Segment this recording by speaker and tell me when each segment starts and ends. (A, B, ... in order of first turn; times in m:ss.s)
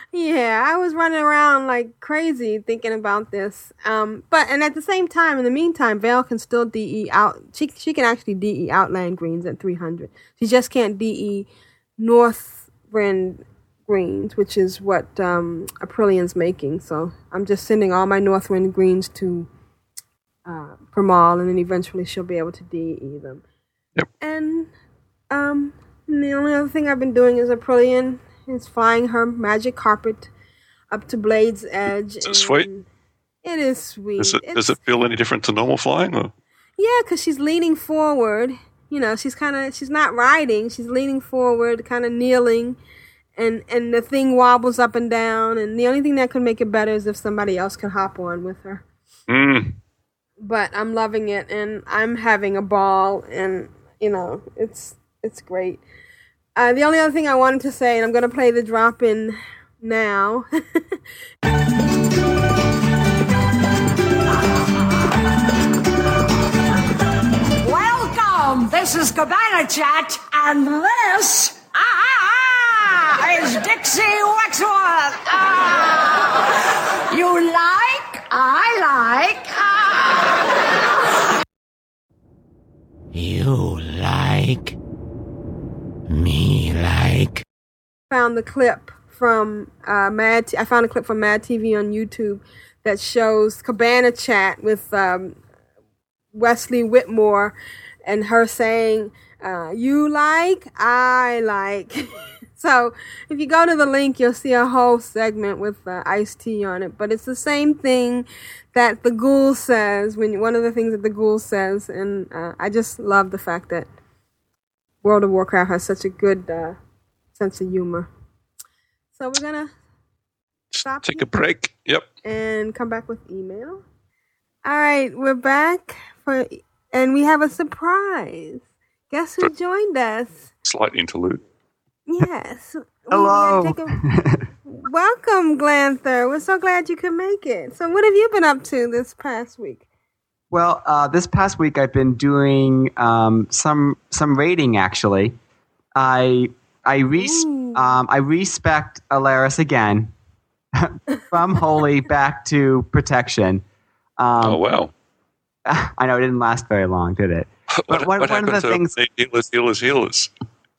0:00.1-0:19.5 A
0:20.5-0:23.4 A
0:24.2-0:24.7 A
0:25.3-0:30.3 A
0:30.9-0:32.9 A
0:32.2-0:32.7 B
0:33.4-0:34.7 A
0:34.2-0:36.3 B
0:36.8-0:42.8 A
0:43.4-0:48.8 A
0:49.3-0:49.8 B
0:50.4-0:55.8 A
0:56.6-1:00.5 A
1:07.6-1:20.6 C
1:23.1-1:24.8 D
1:26.1-1:27.4 D
1:28.1-1:35.4 A
1:36.3-1:37.6 A
1:38.1-1:53.9 A
1:55.0-1:56.8 A
1:57.4-1:58.1 A
1:59.2-1:59.7 A
2:00.7-2:02.1 B
2:00.8-2:01.4 A
2:02.2-2:03.8 A
2:04.6-2:10.4 A
2:10.6-2:11.4 B
2:12.1-2:14.0 A
2:13.1-2:14.4 E
2:14.7-2:19.8 A
2:20.5-2:25.4 E
2:26.0-2:30.1 E
2:27.2-2:28.0 A
2:30.8-2:33.6 E
2:34.2-2:34.6 E
2:34.4-2:34.9 B
2:35.7-2:39.0 E
2:37.8-2:40.3 B